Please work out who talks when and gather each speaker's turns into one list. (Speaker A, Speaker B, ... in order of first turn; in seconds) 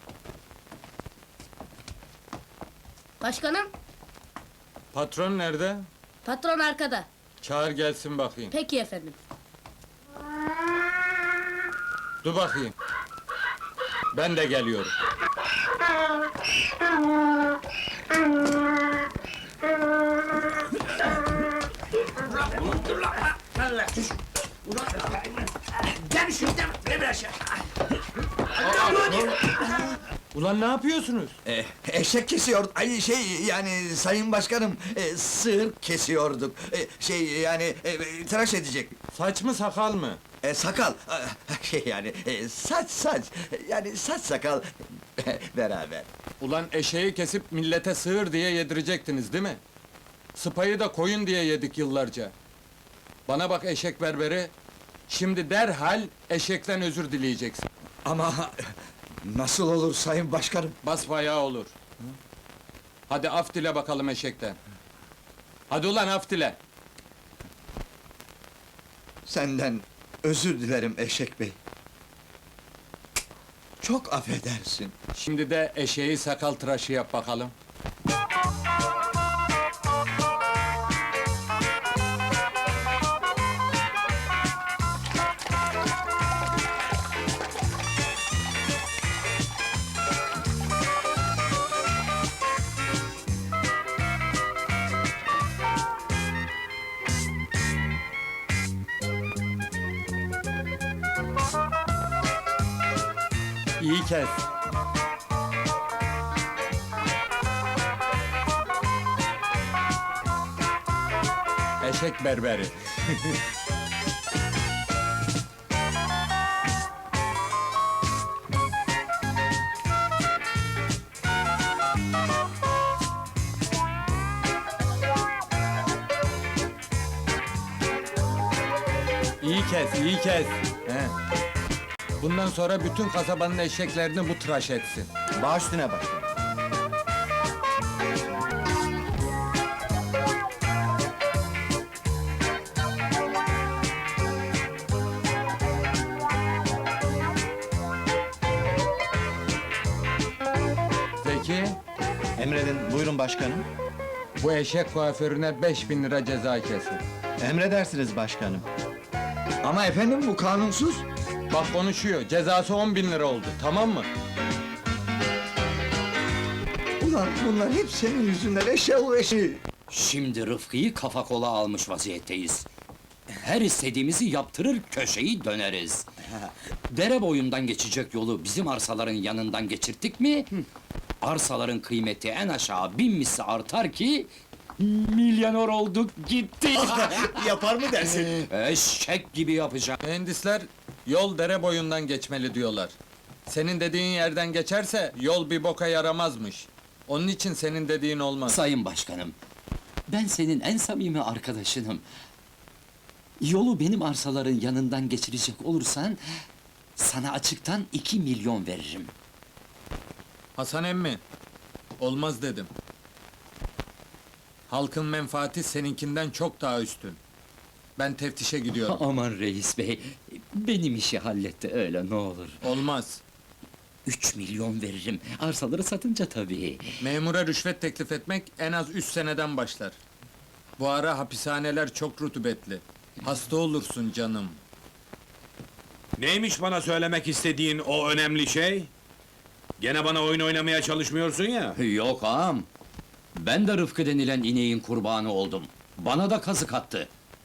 Speaker A: 3.2-3.7, 6.2-7.0, 8.5-9.2
Speaker B: 4.9-5.8, 7.4-8.5, 12.2-12.7, 14.1-14.9, 28.7-29.0, 30.3-31.4, 39.1-40.2, 46.4-49.6, 50.3-52.3, 53.2-54.5, 55.1-57.6, 60.8-61.7, 63.1-64.6, 65.7-66.6, 75.1-77.5, 103.8-104.5, 111.8-113.3, 129.4-131.1, 132.2-135.1, 151.2-151.8, 154.4-157.0, 161.5-164.1, 190.0-192.9, 193.4-198.6, 210.6-211.2, 212.0-212.7, 214.7-217.2, 218.0-219.0, 222.6-223.2, 227.0-230.0, 230.8-234.6
Speaker C: 31.4-38.9, 40.4-44.7, 45.2-46.1, 58.0-58.6, 59.2-60.8, 69.2-71.5, 73.8-74.9, 159.6-161.0, 167.0-169.6
Speaker D: 135.4-136.3, 152.4-153.7, 157.4-158.7, 187.0-188.3
Speaker E: 169.9-172.7, 173.3-176.1, 176.9-180.6, 181.2-190.0, 198.5-199.3, 200.1-202.0, 203.4-206.2, 207.0-209.1, 218.8-222.6, 224.1-226.9, 241.8-242.7, 243.3-247.1
Speaker F: 236.2-238.9, 239.8-241.8